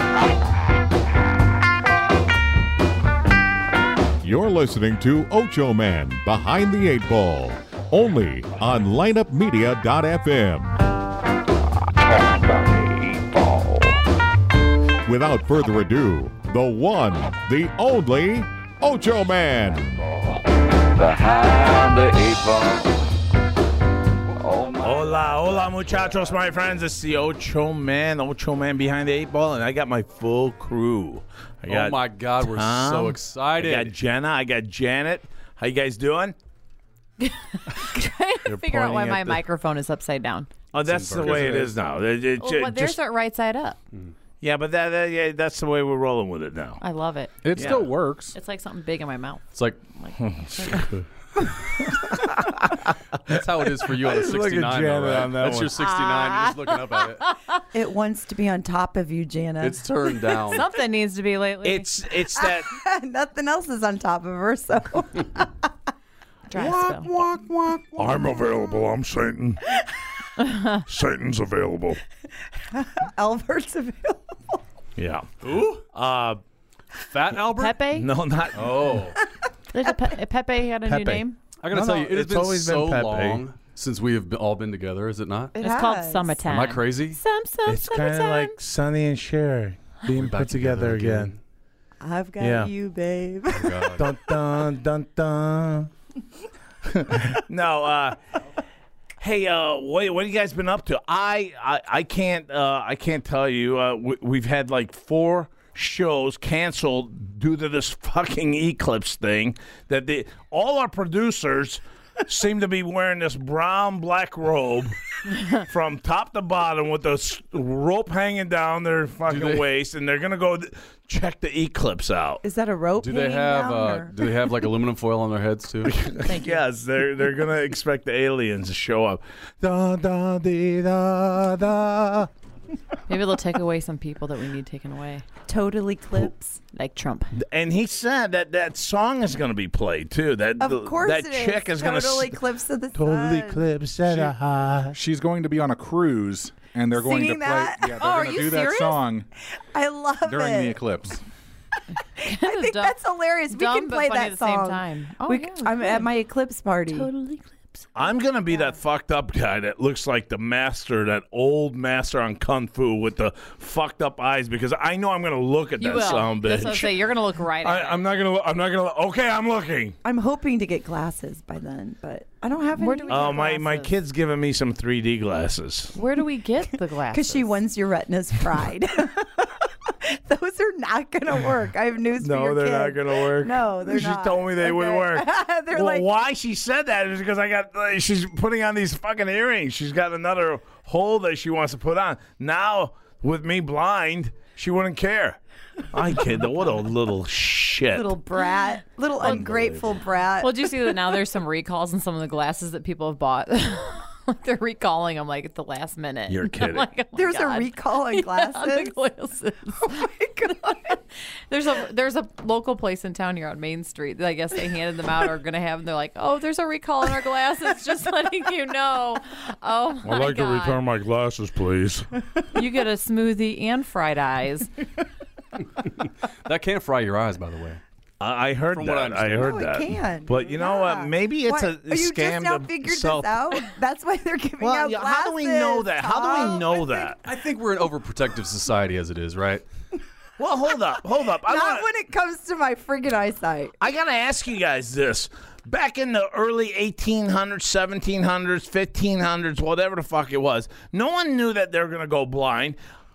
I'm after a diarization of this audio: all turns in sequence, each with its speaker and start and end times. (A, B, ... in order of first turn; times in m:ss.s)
0:04.2-0:10.7 A
0:12.0-0:13.9 B
0:15.0-0:20.0 A
0:20.9-0:23.0 B
0:24.4-0:25.7 B
0:24.8-0:36.4 C
0:31.7-0:33.9 D
0:37.2-0:40.5 E
0:38.4-0:39.4 C
0:40.7-0:43.0 C
0:40.8-0:41.7 D
0:41.2-0:41.5 F
0:42.4-0:43.8 E
0:44.4-0:46.8 C
0:46.8-0:47.6 E
0:47.4-0:48.4 F
0:47.5-0:47.9 C
0:48.3-0:50.9 E
0:49.5-0:49.8 D
0:50.2-0:51.0 C
0:51.6-0:55.8 C
0:53.2-0:57.3 D
0:55.8-0:57.6 E
0:57.7-1:00.6 G
0:59.6-1:00.6 D
1:00.5-1:01.9 E
1:01.6-1:02.7 C
1:02.3-1:05.7 G
1:06.5-1:07.1 E
1:06.5-1:09.6 C
1:07.9-1:08.8 G
1:10.4-1:10.8 E
1:10.8-1:12.0 C
1:12.5-1:14.6 G
1:15.0-1:15.3 C
1:15.4-1:15.8 D
1:15.9-1:16.4 C
1:17.0-1:17.8 D
1:17.5-1:18.1 E
1:17.9-1:19.0 C
1:18.5-1:19.2 D
1:19.7-1:21.4 E
1:20.8-1:23.4 C
1:21.6-1:25.5 D
1:25.6-1:26.4 G
1:25.6-1:28.5 E
1:26.4-1:27.2 D
1:27.6-1:31.3 C
1:30.1-1:31.4 D
1:32.0-1:34.0 G
1:32.4-1:32.7 C
1:33.5-1:34.0 D
1:34.0-1:35.9 C
1:36.8-1:38.2 C
1:39.2-1:54.9 C
1:55.5-2:02.4 C
1:59.3-1:59.6 D
2:02.4-2:04.5 G
2:03.0-2:06.0 D
2:05.8-2:12.3 C
2:06.2-2:06.6 G
2:13.1-2:15.2 E
2:15.5-2:16.6 G
2:16.7-2:17.3 E
2:17.4-2:22.4 C
2:20.6-2:23.6 G
2:22.9-2:25.0 C
2:24.9-2:29.3 F
2:26.9-2:28.1 G
2:28.0-2:29.0 E
2:29.6-2:30.8 G
2:30.2-2:31.2 F
2:32.2-2:33.0 E
2:32.2-2:37.1 G
2:33.5-2:36.0 E
2:36.9-2:37.7 E
2:38.0-2:47.1 C
2:45.8-2:48.0 E
2:47.6-2:50.0 C
2:50.0-2:53.5 G
2:52.8-2:53.9 E
2:53.1-2:55.9 C
2:55.9-2:57.5 E
2:57.1-3:06.1 G
3:02.2-3:15.4 C
3:15.9-3:18.1 C
3:17.9-3:20.9 G
3:19.2-3:20.0 C
3:20.4-3:40.8 E
3:26.3-3:26.9 C
3:27.1-3:28.9 G
3:29.8-3:31.0 G
3:40.0-3:42.1 C
3:42.5-3:44.7 E
3:46.0-3:47.8 D
3:48.2-3:53.3 C
3:48.7-3:49.6 D
3:49.3-3:57.1 G
3:54.6-3:57.2 C
3:57.2-3:59.6 D
4:00.4-4:01.8 C
4:01.4-4:03.8 G
4:03.8-4:12.8 C